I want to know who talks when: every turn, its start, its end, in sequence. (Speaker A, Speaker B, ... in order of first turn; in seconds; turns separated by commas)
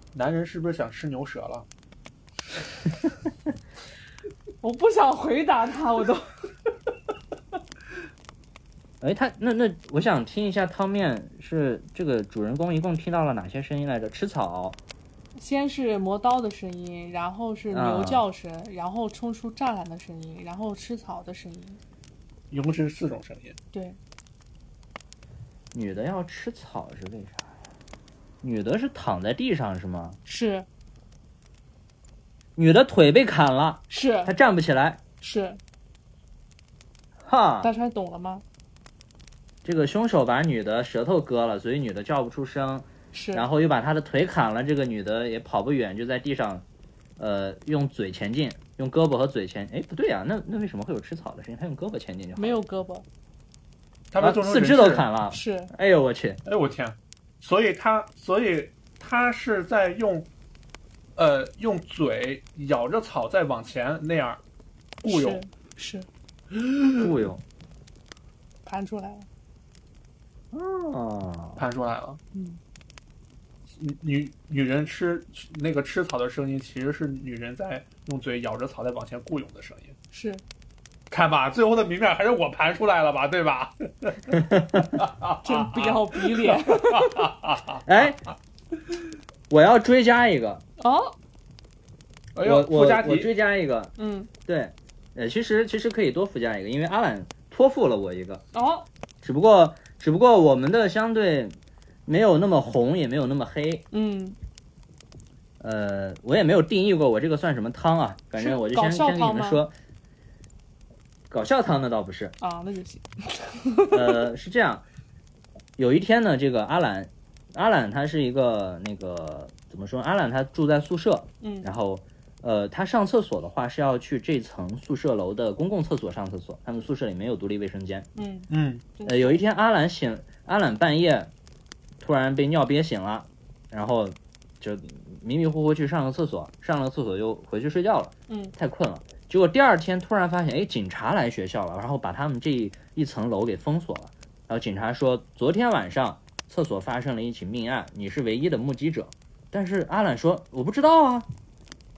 Speaker A: 0.1-1.7, Speaker B: 4.6-6.3, Speaker C: 9.0-14.8, Speaker B: 15.3-21.8, Speaker C: 17.7-18.2, Speaker A: 22.5-23.6, Speaker B: 23.7-24.0, Speaker C: 25.7-27.5, Speaker C: 28.4-30.2, Speaker B: 30.2-30.6, Speaker C: 32.5-35.0, Speaker B: 33.9-34.3, Speaker B: 35.2-35.6, Speaker C: 37.2-37.7, Speaker B: 37.6-38.4, Speaker C: 39.6-46.6, Speaker B: 43.1-43.4, Speaker C: 47.2-52.6, Speaker B: 52.4-53.0, Speaker A: 54.1-55.1, Speaker C: 54.2-56.4, Speaker B: 55.3-55.7, Speaker A: 56.4-60.3, Speaker A: 61.1-64.4, Speaker A: 65.0-65.4, Speaker B: 65.0-66.1, Speaker A: 66.5-67.0, Speaker C: 67.0-67.4, Speaker B: 68.7-69.3, Speaker C: 70.5-71.6, Speaker A: 71.6-72.2, Speaker B: 72.3-72.6, Speaker A: 73.7-80.0, Speaker B: 80.1-80.4, Speaker A: 81.1-84.4, Speaker C: 84.3-85.0, Speaker A: 84.9-88.3, Speaker B: 85.4-87.3, Speaker C: 87.8-88.2, Speaker C: 89.5-90.6, Speaker B: 90.8-91.1, Speaker A: 92.3-93.3, Speaker C: 92.4-93.9, Speaker B: 94.0-94.3, Speaker C: 94.5-98.4, Speaker B: 98.5-98.9, Speaker C: 99.2-103.8, Speaker B: 103.9-104.4, Speaker C: 105.6-109.7, Speaker B: 108.3-109.6, Speaker C: 111.3-112.3, Speaker B: 112.4-114.2, Speaker C: 113.9-114.8, Speaker C: 115.8-128.1, Speaker B: 121.4-121.7, Speaker B: 128.2-129.4, Speaker A: 128.5-128.8, Speaker C: 129.0-131.3, Speaker C: 132.0-151.3, Speaker B: 138.3-138.5